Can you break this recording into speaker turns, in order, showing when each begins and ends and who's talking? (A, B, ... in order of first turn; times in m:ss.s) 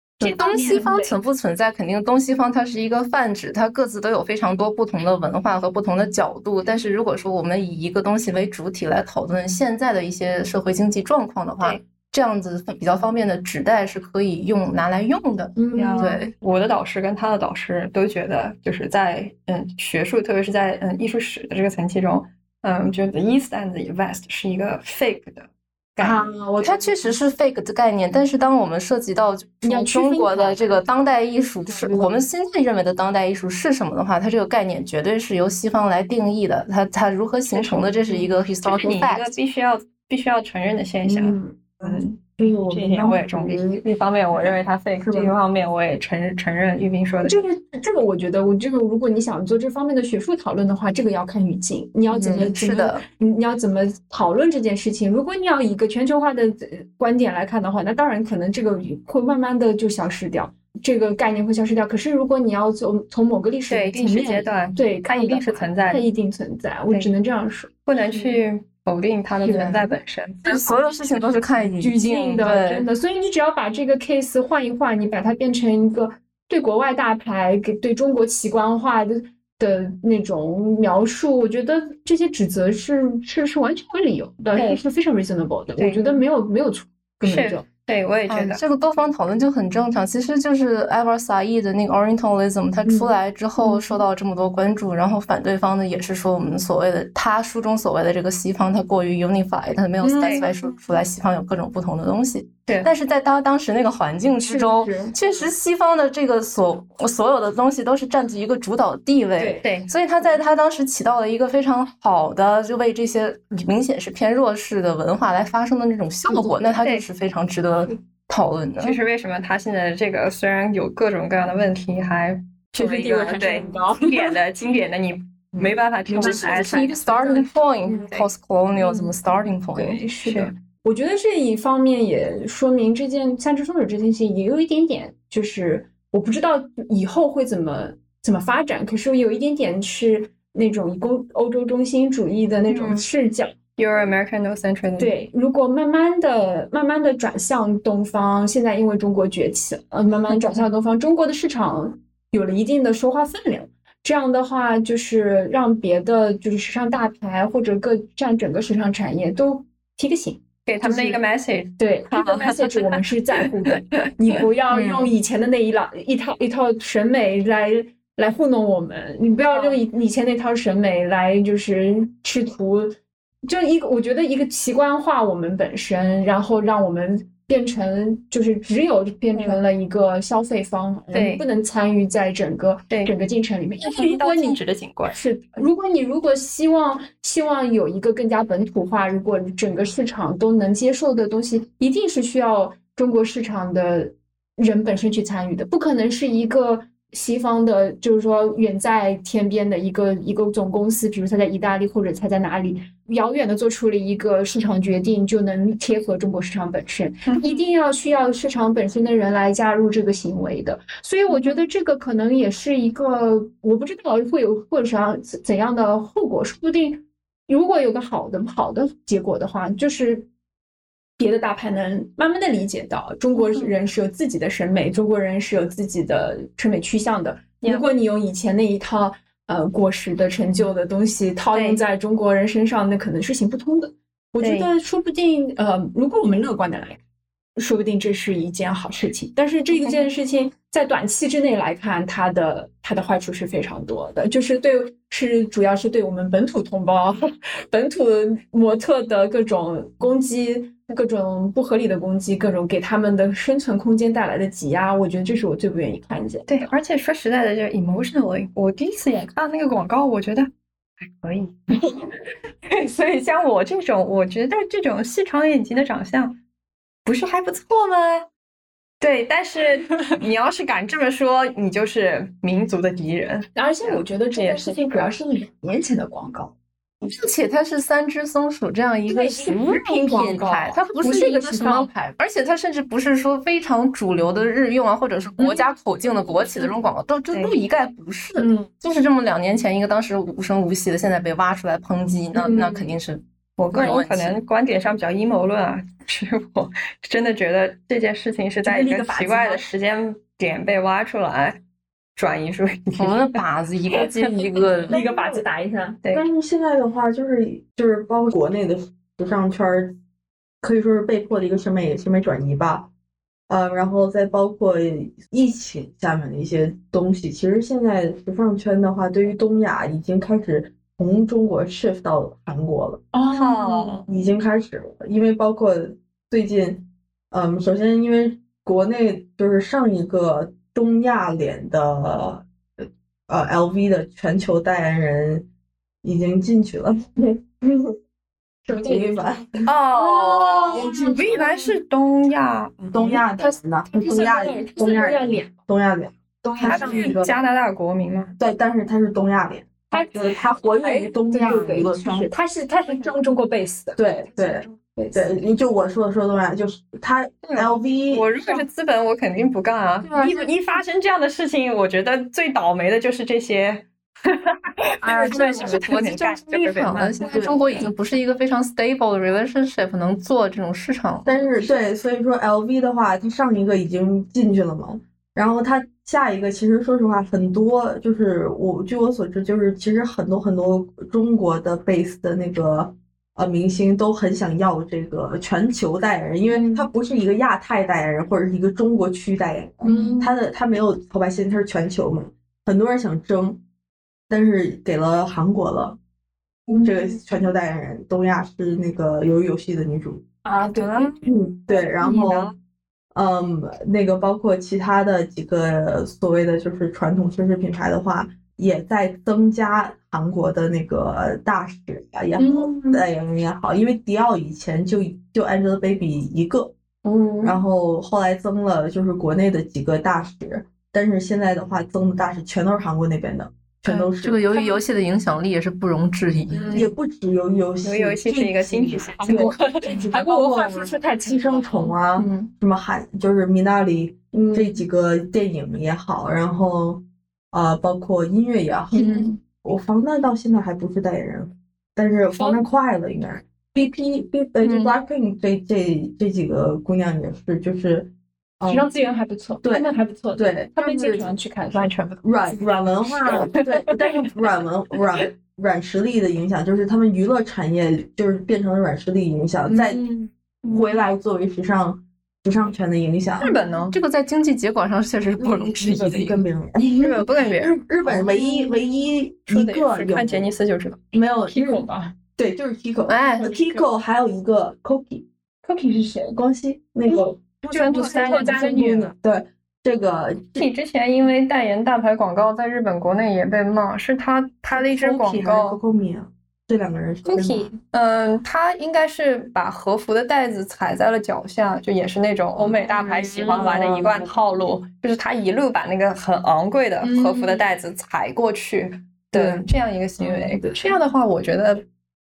0:00.2-0:01.1 A
0:00.2-0:16.3 B
0:15.6-0:16.2 A
0:15.7-0:26.3 C
0:26.0-0:27.2 A
0:26.6-0:39.3 B
0:29.6-0:30.8 A
0:31.7-0:32.2 A
0:37.5-0:38.3 A
0:38.6-0:47.4 C
0:41.1-0:41.6 A
0:41.8-0:45.4 D
0:47.2-1:08.4 A
0:52.1-0:53.0 B
1:03.7-1:06.0 C
1:07.9-1:10.5 C
1:09.4-1:09.9 A
1:10.4-1:10.8 A
1:10.5-1:12.9 B
1:11.8-1:27.7 A
1:24.6-1:24.8 C
1:25.8-1:26.2 C
1:27.2-1:28.6 C
1:28.3-1:59.0 B
1:32.8-1:34.0 A
1:40.0-1:40.5 A
1:40.2-1:40.4 C
1:44.5-1:45.2 A
1:49.4-1:49.7 A
1:49.6-1:49.9 C
1:56.3-1:56.6 A
1:56.8-1:57.0 C
1:58.8-2:08.3 C
2:02.8-2:04.4 A
2:05.6-2:08.1 A
2:06.2-2:10.0 B
2:08.8-2:09.1 A
2:09.7-2:23.5 A
2:10.2-2:10.5 C
2:22.7-2:23.0 C
2:23.8-2:25.1 C
2:25.0-2:41.2 A
2:40.7-2:43.0 C
2:41.8-3:40.3 A
2:44.0-2:44.4 C
2:44.7-2:45.1 B
2:49.5-2:49.8 C
2:59.3-2:59.6 C
3:01.1-3:01.4 C
3:03.8-3:05.2 C
3:27.3-3:27.6 C
3:31.3-3:31.6 C
3:41.2-3:57.0 A
3:43.4-3:43.7 C
3:51.5-3:51.8 C
3:54.4-3:54.7 C
3:57.6-4:16.7 A
4:16.5-4:20.5 C
4:21.0-4:22.1 C
4:22.7-4:26.4 C
4:27.0-4:28.3 C
4:29.0-4:35.1 C
4:33.6-4:36.5 A
4:37.0-4:54.4 B
4:39.1-4:41.9 A
4:45.4-4:45.6 A
4:48.4-4:48.7 A
4:52.4-4:52.9 A
4:53.6-5:01.6 C
4:58.6-4:59.7 A
5:02.2-5:03.4 C
5:03.0-5:05.0 B
5:03.9-5:04.7 C
5:04.9-5:06.0 A
5:04.9-5:05.4 D
5:06.1-5:10.0 D
5:10.6-5:12.9 D
5:13.5-5:23.0 D
5:23.1-5:24.0 A
5:23.3-5:24.1 C
5:24.1-5:35.5 D
5:36.0-5:37.1 D
5:37.3-5:37.8 A
5:38.7-5:39.2 A
5:38.7-5:39.7 D
5:39.7-5:43.2 C
5:39.9-5:41.8 A
5:40.7-5:41.4 D
5:42.9-5:47.3 D
5:43.4-5:45.5 A
5:46.4-5:47.2 A
5:46.6-5:48.3 C
5:48.4-5:52.3 D
5:49.9-5:55.4 A
5:54.0-5:58.3 D
5:57.4-6:07.2 C
6:00.0-6:00.5 A
6:05.0-6:06.2 A
6:05.2-6:11.3 B
6:07.2-6:07.9 A
6:07.3-6:07.6 D
6:11.2-6:33.6 D
6:26.5-6:26.9 A
6:29.8-6:30.4 A
6:34.3-6:36.0 D
6:36.7-6:37.2 A
6:36.8-6:40.2 D
6:40.4-6:41.3 A
6:40.8-6:41.1 C
6:41.3-6:42.5 D
6:42.0-6:42.5 A
6:43.1-6:56.8 D
6:52.4-6:53.0 A
6:57.0-6:57.6 A
6:57.4-7:04.5 D
7:04.2-7:06.9 B
7:04.5-7:04.8 A
7:06.5-7:06.9 A
7:06.7-7:28.9 D
7:07.8-7:09.7 C
7:09.2-7:12.5 A
7:14.3-7:14.8 A
7:18.9-7:19.4 A
7:22.4-7:22.7 A
7:28.7-7:32.2 A
7:29.6-7:31.3 D
7:31.7-7:32.1 C
7:32.2-7:40.1 D
7:39.7-7:40.8 A
7:40.6-7:43.5 D
7:43.4-7:44.0 C
7:43.9-7:46.4 B
7:45.4-7:50.5 D
7:46.8-7:48.3 C
7:48.0-7:48.8 A
7:49.5-7:51.0 C
7:51.1-7:51.8 D
7:51.5-7:52.2 A
7:52.4-7:55.3 D
7:53.1-7:53.5 B
7:53.4-7:53.9 A
7:55.6-7:56.4 A
7:56.4-8:00.7 D
7:57.1-7:59.1 A
7:57.7-7:59.1 C
8:00.6-8:05.8 C
8:04.7-8:07.7 D
8:07.2-8:21.8 C
8:12.6-8:13.9 A
8:13.5-8:14.3 D
8:17.0-8:17.7 A
8:19.3-8:19.7 D
8:20.2-8:20.9 A